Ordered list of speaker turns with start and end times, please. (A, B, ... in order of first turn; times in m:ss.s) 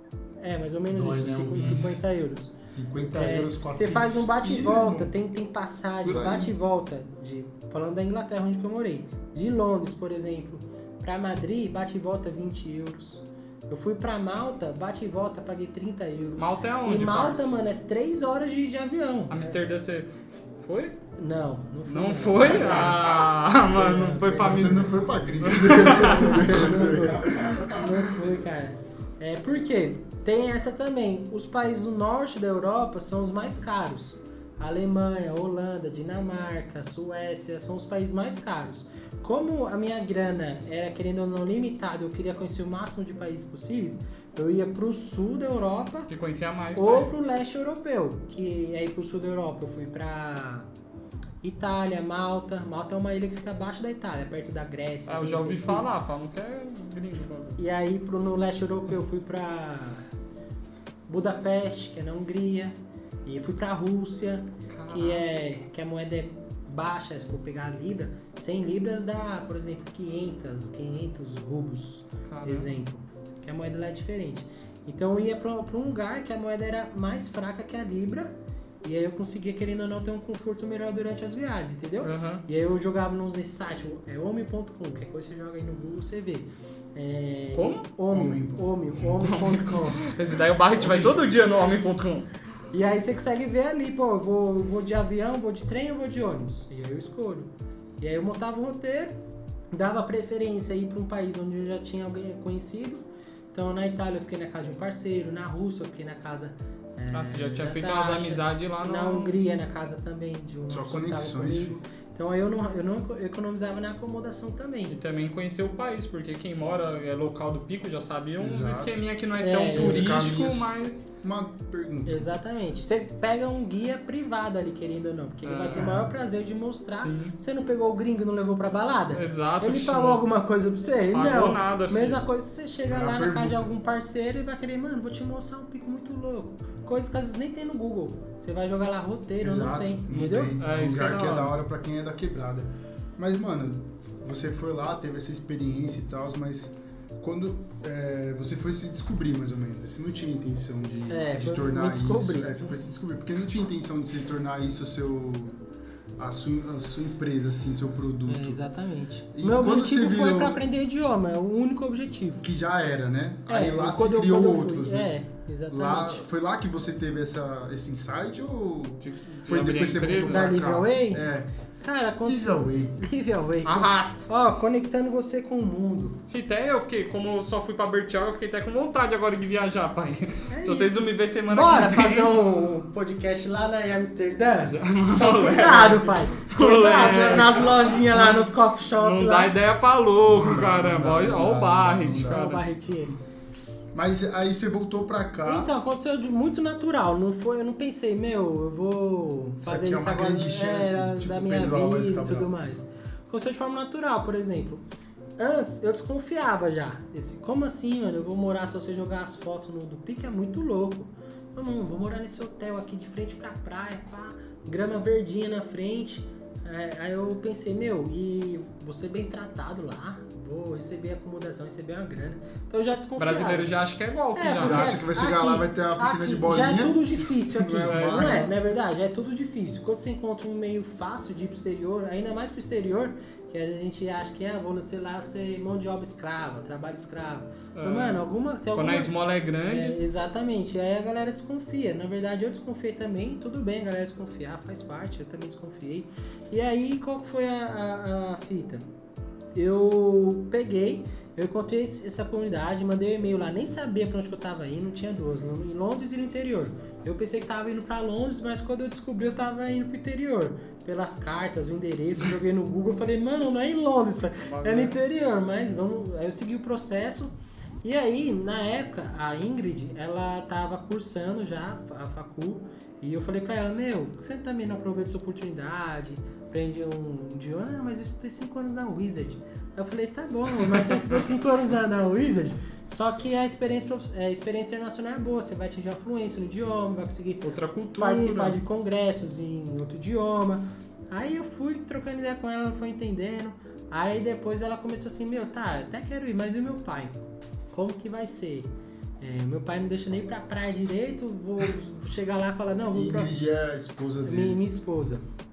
0:00.4-0:02.5 A
0:00.9-0:02.0 B
0:02.7-0:05.1 B
0:03.2-0:19.6 A
0:06.0-0:06.5 B
0:16.4-0:17.6 C
0:19.3-0:21.0 C
0:21.2-0:23.1 A
0:21.9-0:26.7 C
0:23.7-0:24.8 A
0:24.4-0:28.0 B
0:25.6-0:46.1 A
0:46.1-0:47.1 C
0:46.8-0:50.7 A
0:51.4-0:55.9 A
0:55.1-0:57.6 C
0:57.6-1:00.0 A
1:01.1-1:02.8 A
1:03.3-1:30.0 A
1:04.7-1:05.2 C
1:12.3-1:12.7 C
1:22.0-1:22.4 C
1:27.5-1:27.8 C
1:28.1-1:29.3 B
1:29.3-1:32.3 C
1:32.7-1:39.2 A
1:39.7-1:55.0 A
1:47.1-1:49.4 C
1:50.7-1:51.8 B
1:54.9-2:01.0 C
1:58.4-1:59.0 B
1:59.4-2:00.1 A
1:59.7-2:02.3 B
2:02.1-2:20.8 A
2:05.4-2:05.9 C
2:05.7-2:06.1 B
2:06.9-2:07.4 C
2:09.1-2:10.3 C
2:11.1-2:12.2 C
2:12.9-2:13.7 B
2:19.4-2:35.6 B
2:20.1-2:21.6 C
2:31.1-2:32.8 A
2:36.2-2:38.6 B
2:38.3-2:42.5 A
2:39.3-2:40.6 B
2:42.4-2:45.1 B
2:43.5-2:46.2 A
2:45.7-2:51.5 B
2:49.0-2:50.5 C
2:50.2-2:51.2 A
2:51.8-2:56.2 A
2:52.2-2:53.0 B
2:53.6-2:54.2 C
2:56.3-3:02.3 C
3:00.5-3:09.5 A
3:04.7-3:12.6 C
3:10.3-3:12.4 B
3:12.3-3:13.2 A
3:13.9-3:15.7 B
3:15.4-3:24.8 A
3:19.6-3:22.5 B
3:25.4-3:43.7 A
3:43.2-3:44.9 C
3:44.4-4:08.8 A
3:44.6-3:48.5 B
3:47.9-3:48.4 C
3:57.8-3:58.2 C
3:58.7-4:00.0 C
4:09.6-5:03.3 A
4:24.4-4:25.0 C
4:47.4-4:48.6 C
5:02.9-5:04.6 B
5:04.2-5:05.3 A